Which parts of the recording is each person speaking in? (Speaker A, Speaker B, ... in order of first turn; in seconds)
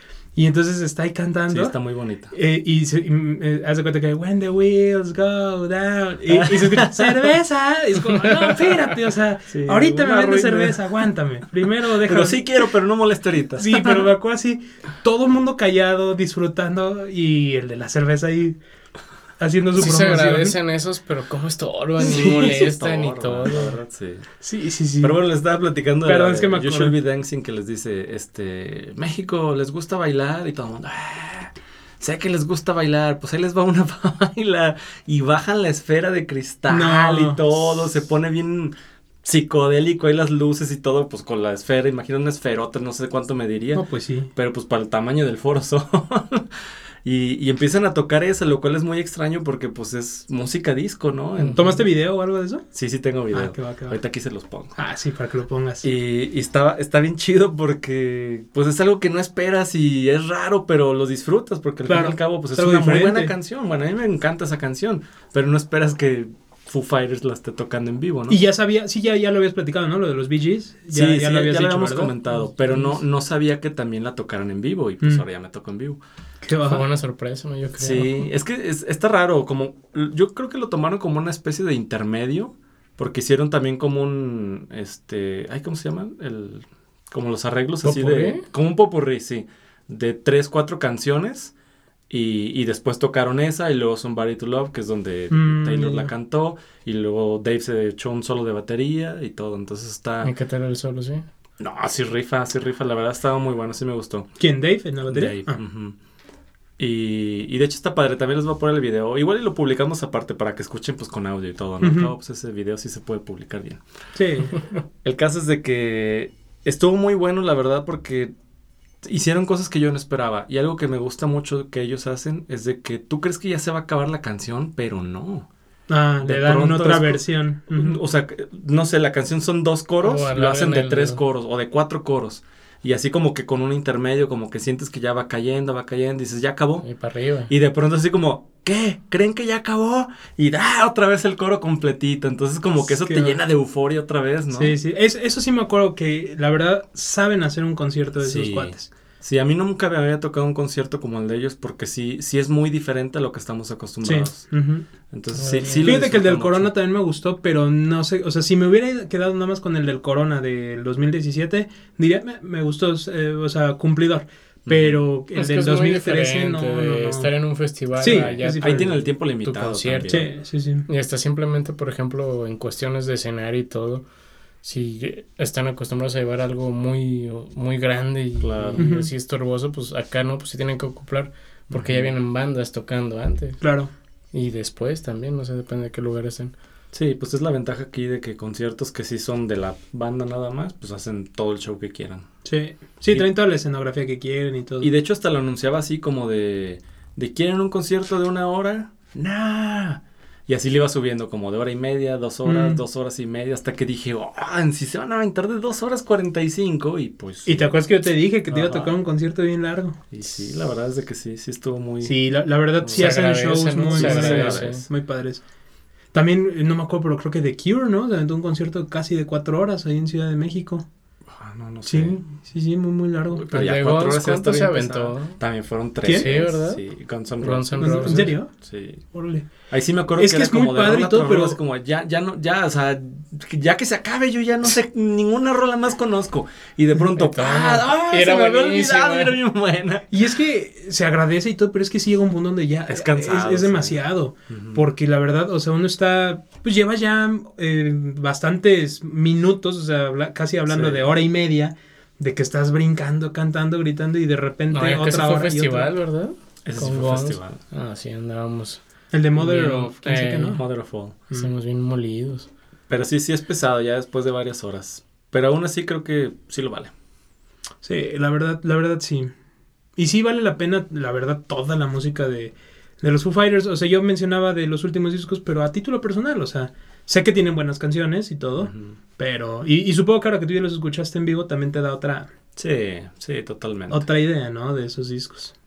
Speaker A: 0.4-1.7, 2.3-12.5, 13.6-18.6, 19.4-20.6, 22.1-22.5, 24.4-25.2, 26.1-26.9, 36.7-37.4, 43.7-44.3, 51.5-52.6, 53.3-54.0, 54.8-55.9, 61.9-63.3, 68.3-73.0, 76.4-76.8, 95.3-96.1, 104.4-105.6, 111.8-112.1, 114.1-114.6, 125.9-128.0, 142.9-143.4, 144.5-148.9, 154.0-154.9, 155.7-167.3, 168.0-169.0, 170.1-170.9, 178.8-179.1, 183.6-183.9, 192.4-194.9, 202.4-202.8, 207.4-210.0, 212.0-215.4, 216.1-220.9, 221.9-223.4, 227.8-228.5, 229.1-229.5, 230.2-231.6, 240.1-255.9, 259.1-260.6, 267.8-269.3, 270.0-282.3, 283.9-285.5
Speaker B: 1.5-2.3, 6.3-7.3, 9.5-10.8, 12.0-14.1, 22.0-24.3, 25.0-51.8, 52.7-54.7, 55.8-68.4, 70.9-76.0, 77.8-91.5, 92.1-100.3, 101.6-104.3, 105.1-106.0, 106.8-113.8, 114.7-118.3, 119.0-125.5, 126.2-136.8, 137.5-144.8, 148.2-154.5, 155.1-156.7, 164.7-165.0, 168.0-170.3, 178.4-178.9, 181.7-182.1, 186.9-192.3, 194.8-207.7, 208.5-208.9, 210.1-212.1, 212.8-213.2, 213.9-214.9, 221.3-222.2, 223.3-229.0, 229.7-240.3, 242.9-244.8, 250.7-251.1, 256.6-257.6, 260.6-261.1, 262.9-266.9, 278.6-279.0, 282.6-284.1
Speaker C: 19.8-23.8, 51.4-51.8, 76.6-78.2, 87.8-88.5, 100.2-101.2, 130.0-131.2, 136.8-137.5, 155.3-155.9, 165.3-170.3, 170.9-174.1, 174.6-183.6, 184.3-186.5, 212.9-214.8, 223.5-225.4, 226.1-226.8, 227.4-228.3, 237.1-239.4, 254.7-258.8, 259.4-260.6, 261.3-262.5